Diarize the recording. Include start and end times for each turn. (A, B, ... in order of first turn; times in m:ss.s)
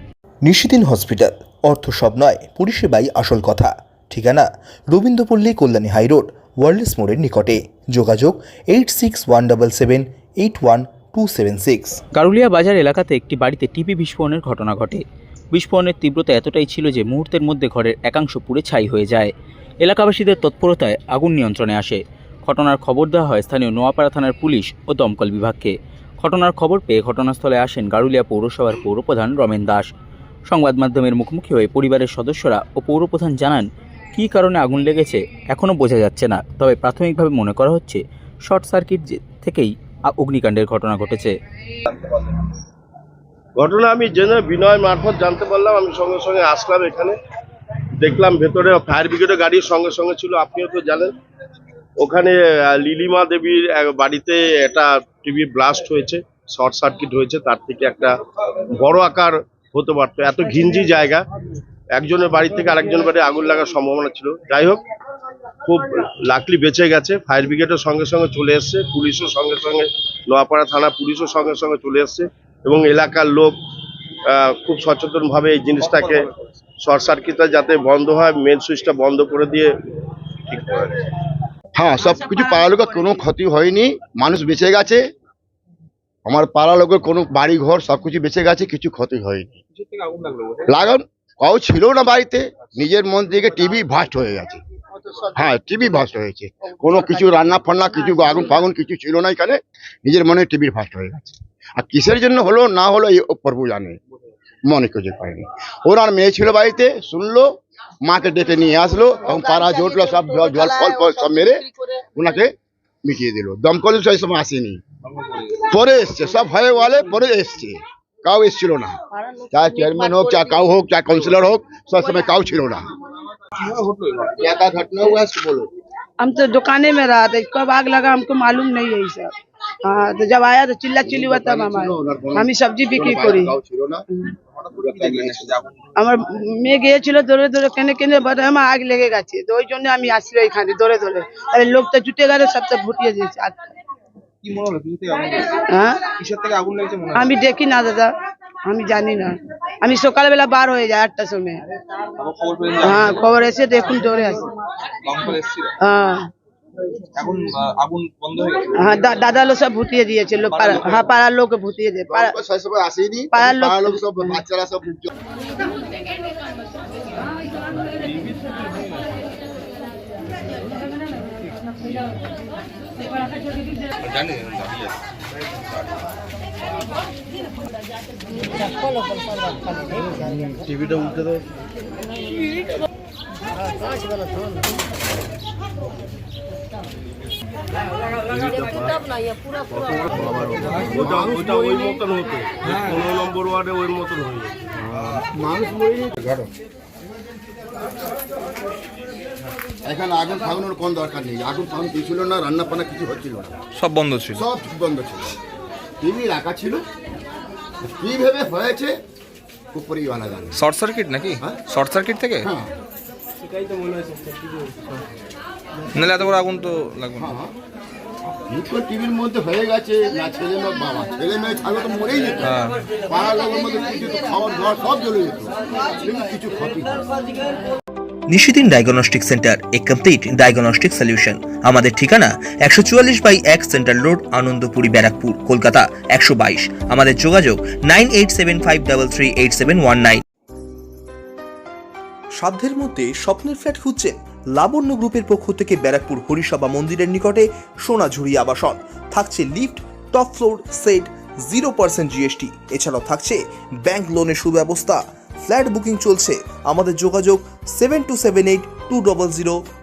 0:00.4-0:12.0 A
0:12.1-0:19.3 B
0:19.8-0:29.9 B
0:30.5-0:41.3 B
0:41.9-0:42.4 C
0:43.6-0:47.2 C
0:48.0-0:51.2 C
0:52.0-0:58.1 C
0:58.8-1:01.2 C
1:01.9-1:04.8 C
1:05.6-1:13.6 C
1:14.3-1:16.3 C
1:16.8-1:19.7 C
1:20.5-1:21.0 C
1:21.7-1:25.0 D
1:26.2-1:29.6 D
1:29.7-1:30.9 E
1:30.7-1:34.6 D
1:35.3-1:44.0 D
1:38.2-1:38.4 F
1:44.7-1:47.5 D
1:48.0-1:51.6 D
1:49.3-1:51.9 F
1:52.1-1:52.5 D
1:53.0-1:54.8 D
1:55.1-1:55.6 E
1:55.7-1:58.9 D
1:59.1-2:00.5 F
1:59.5-2:02.8 D
2:03.6-2:04.5 E
2:04.4-2:05.7 D
2:06.2-2:09.3 F
2:09.8-2:13.5 F
2:11.0-2:12.5 D
2:13.0-2:14.0 D
2:14.6-2:15.8 E
2:14.8-2:15.4 D
2:16.0-2:23.6 F
2:24.4-2:25.6 E
2:25.7-2:26.0 F
2:26.2-2:27.4 E
2:27.1-2:28.1 F
2:28.6-2:31.6 F
2:32.2-2:33.4 E
2:32.8-2:34.4 F
2:35.0-2:35.7 E
2:35.8-2:36.2 F
2:37.1-2:39.3 E
2:38.8-2:42.4 F
2:40.4-2:41.2 E
2:42.1-2:45.1 D
2:43.3-2:44.4 F
2:54.0-2:54.9 E
3:10.3-3:11.8 D
3:10.8-3:14.6 C
3:14.8-3:16.5 D
3:19.8-3:23.5 D
3:23.7-3:24.4 G
3:24.3-3:25.4 D
3:26.0-3:26.8 D
3:28.0-3:28.9 D
3:29.7-3:30.6 D
3:30.5-3:32.5 G
3:32.4-3:32.7 D
3:35.9-3:37.3 G
3:37.2-3:37.5 D
3:38.5-3:42.4 D
3:42.5-3:42.8 G
3:43.0-3:47.0 D
3:48.3-4:00.2 A
4:02.4-4:12.0 A
4:12.6-4:15.0 A
4:15.5-4:16.4 A
4:17.0-4:17.4 A
4:18.1-4:19.5 A